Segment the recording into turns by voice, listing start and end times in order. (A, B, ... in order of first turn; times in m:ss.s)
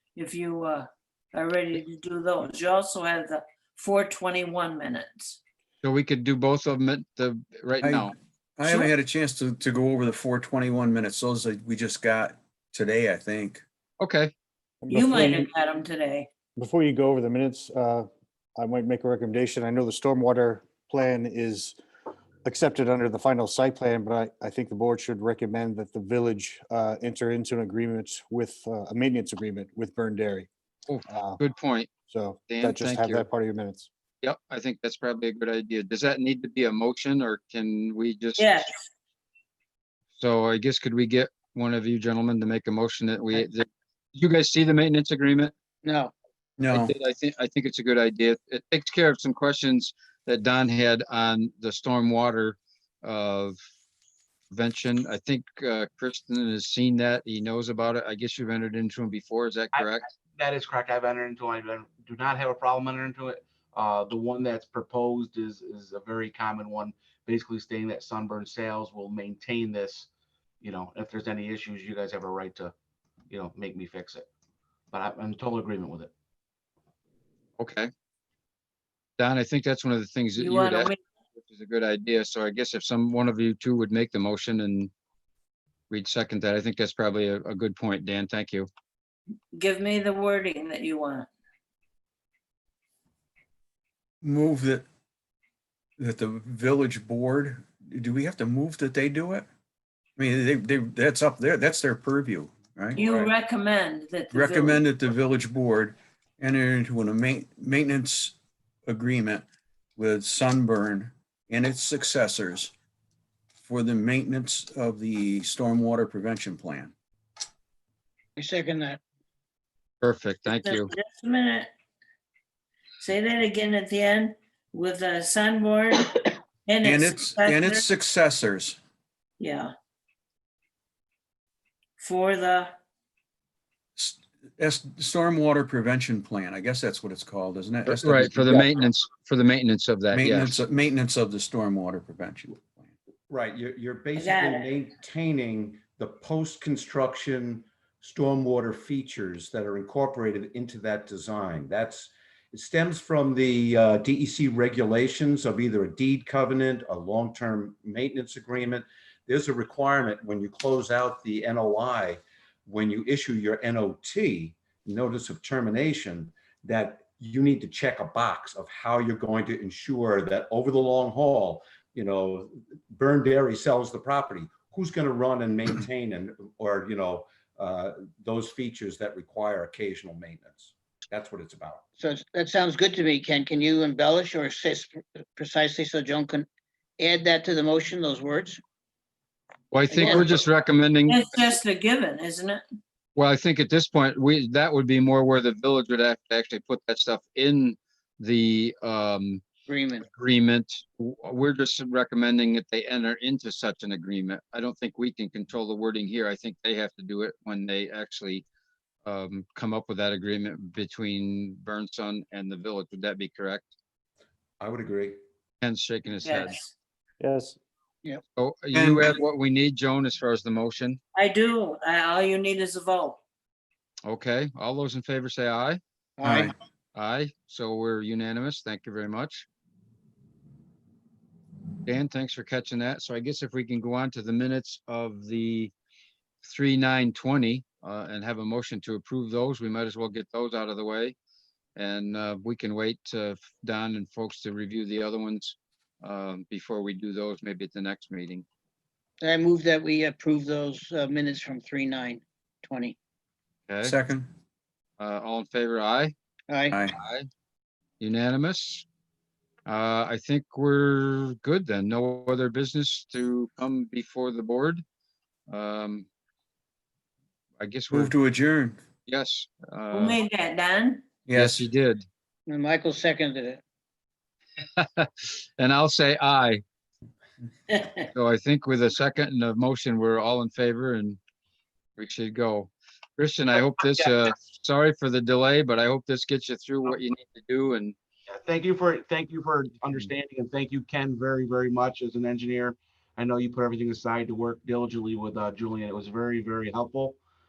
0:00.2-0:05.4 A
0:05.8-0:08.1 B
0:07.8-0:13.6 C
0:08.6-0:08.9 A
0:14.0-0:14.3 B
0:14.8-0:15.5 D
0:14.9-0:16.3 A
0:16.6-0:21.8 D
0:22.4-0:30.5 D
0:30.9-0:31.9 B
0:31.1-0:31.4 D
0:32.1-0:33.9 D
0:32.5-0:33.2 B
0:34.2-0:38.7 B
0:38.4-0:38.9 A
0:40.2-0:45.5 B
0:45.8-0:46.1 E
0:46.6-0:46.9 C
0:46.7-0:53.6 B
0:54.5-1:00.0 B
0:59.7-1:10.1 F
1:10.6-1:12.7 F
1:13.3-1:14.3 F
1:14.9-1:16.1 F
1:17.6-1:17.9 B
1:19.2-1:20.9 B
1:20.4-1:21.0 A
1:21.4-1:24.9 B
1:25.9-1:28.7 B
1:29.5-1:31.3 A
1:34.2-1:34.9 C
1:36.0-1:39.5 C
1:40.2-1:43.0 C
1:43.0-1:44.8 A
1:43.0-1:43.3 G
1:44.3-1:48.4 C
1:48.9-1:49.4 C
1:50.0-1:52.7 C
1:53.6-1:56.9 C
1:58.4-1:59.0 E
2:00.0-2:00.9 B
2:00.5-2:01.7 A
2:03.0-2:06.1 A
2:06.7-2:07.8 A
2:06.8-2:08.8 C
2:09.4-2:09.7 A
2:12.0-2:12.7 A
2:14.0-2:18.8 C
2:17.9-2:20.6 B
2:20.1-2:22.9 C
2:23.3-3:01.8 G
2:24.2-2:24.7 A
3:02.0-3:06.5 E
3:07.0-3:08.6 E
3:09.7-3:11.2 B
3:09.9-3:10.4 E
3:11.1-3:12.6 A
3:13.2-3:19.4 B
3:19.7-3:20.1 E
3:20.1-3:28.4 B
3:29.0-3:33.7 B
3:34.6-3:35.2 G
3:35.6-3:36.6 B
3:36.2-3:36.7 A
3:37.2-3:37.6 D
3:38.4-3:41.0 B
3:38.7-3:39.1 C
3:41.2-3:43.2 A
3:44.0-3:45.8 B
3:46.2-3:46.5 E
3:46.2-3:46.5 C
3:47.0-3:49.5 B
3:51.8-3:55.7 B
3:56.4-4:01.2 B
4:01.8-4:08.4 B
4:09.2-4:13.0 E
4:13.7-4:13.9 B
4:13.8-4:14.3 C
4:15.0-4:16.1 B
4:16.5-4:16.8 E
4:16.9-4:17.3 B
4:18.0-4:18.8 B
4:19.7-4:24.8 B
4:25.5-4:26.1 B
4:27.6-4:28.1 B
4:27.9-4:28.8 C
4:29.1-4:30.2 B
4:29.9-4:31.0 A
4:31.3-4:31.6 C
4:31.4-4:32.0 B
4:32.5-4:33.6 E
4:34.8-4:36.6 B
4:37.7-4:38.0 A
4:38.1-4:41.2 B
4:42.0-4:48.0 B
4:48.3-4:57.2 F